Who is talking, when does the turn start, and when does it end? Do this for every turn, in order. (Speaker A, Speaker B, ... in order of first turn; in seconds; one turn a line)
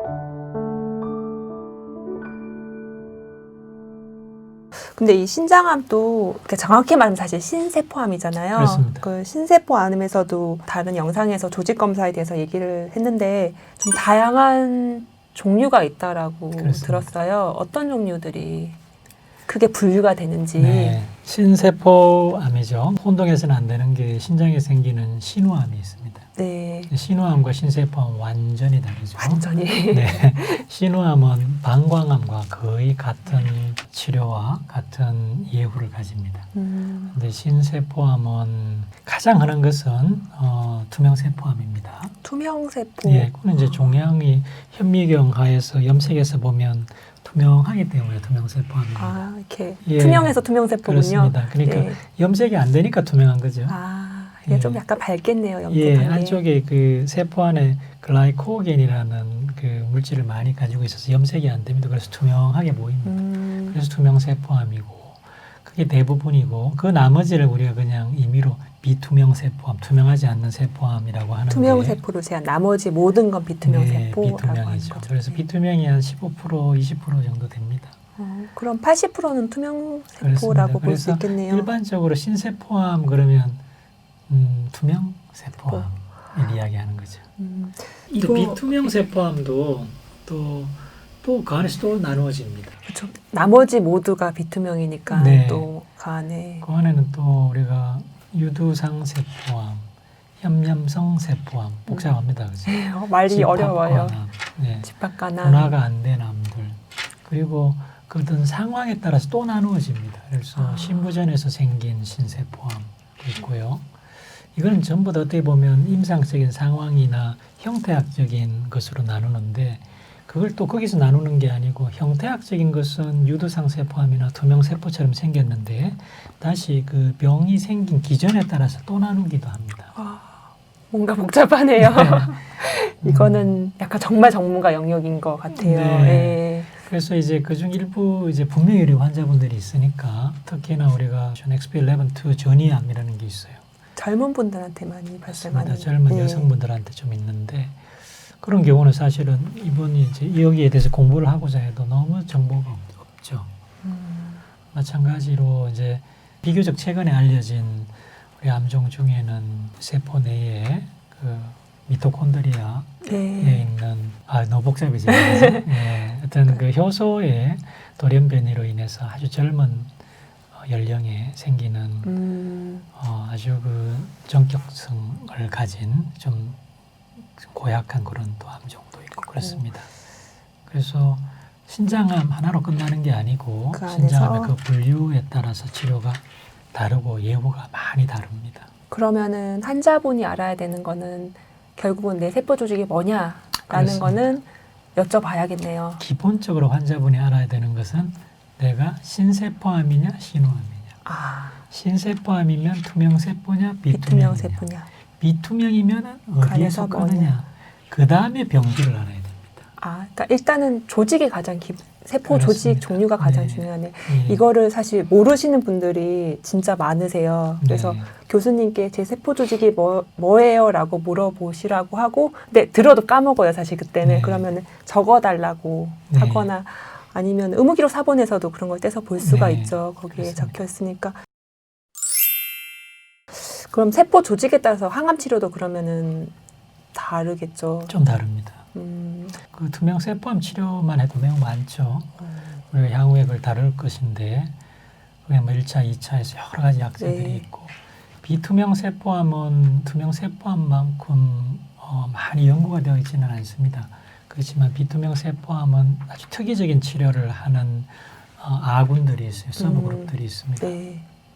Speaker A: 4.9-18.8
Speaker B: 8.5-9.1
Speaker B: 16.6-17.1
Speaker A: 19.5-21.0
Speaker B: 20.6-26.3
Speaker A: 26.4-26.9
Speaker B: 26.9-36.5
Speaker A: 29.2-30.6
Speaker A: 36.5-37.1
Speaker B: 37.1-42.1
Speaker A: 42.2-43.9
Speaker B: 43.0-49.2
Speaker A: 49.0-52.0
Speaker B: 49.8-53.8
Speaker A: 53.7-56.4
Speaker B: 54.5-54.8
Speaker B: 55.7-72.0
Speaker A: 63.0-63.8
Speaker A: 71.5-75.5
Speaker B: 73.6-78.0
Speaker A: 78.2-81.7
Speaker B: 80.2-83.6
Speaker B: 84.3-87.2
Speaker A: 87.4-88.6
Speaker B: 88.1-92.8
Speaker A: 92.9-96.7
Speaker B: 95.1-95.7
Speaker B: 96.6-99.9
Speaker B: 100.4-113.9
Speaker A: 102.7-104.2
Speaker A: 104.8-105.8
Speaker A: 110.5-111.1
Speaker B: 114.5-129.9
Speaker A: 129.9-136.7
Speaker B: 131.8-132.3
Speaker B: 133.0-133.6
Speaker B: 135.5-143.6
Speaker A: 143.9-146.5
Speaker B: 145.3-147.8
Speaker B: 148.4-153.5
Speaker A: 153.8-154.4
Speaker B: 154.7-169.9
Speaker A: 163.0-163.7
Speaker A: 165.1-165.6
Speaker B: 170.5-172.1
Speaker A: 172.0-172.8
Speaker B: 172.9-176.6
Speaker B: 177.4-179.9
Speaker A: 179.3-179.6
Speaker B: 180.7-188.7
Speaker A: 183.7-184.5
Speaker A: 188.9-196.0
Speaker B: 193.7-194.2
Speaker B: 196.0-200.9
Speaker A: 201.1-201.6
Speaker B: 201.7-204.6
Speaker A: 203.9-204.9
Speaker B: 205.2-209.6
Speaker A: 206.4-207.3
Speaker A: 209.8-231.2
Speaker B: 212.2-214.4
Speaker B: 217.6-218.1
Speaker B: 224.0-224.4
Speaker B: 226.1-226.5
Speaker B: 229.2-230.6
Speaker A: 233.4-236.3
Speaker A: 236.9-237.9
Speaker B: 237.9-238.6
Speaker A: 238.7-239.4
Speaker B: 239.5-242.2
Speaker A: 242.2-242.5
Speaker B: 242.7-244.5
Speaker B: 245.3-260.7
Speaker A: 247.0-247.4
Speaker A: 259.6-261.1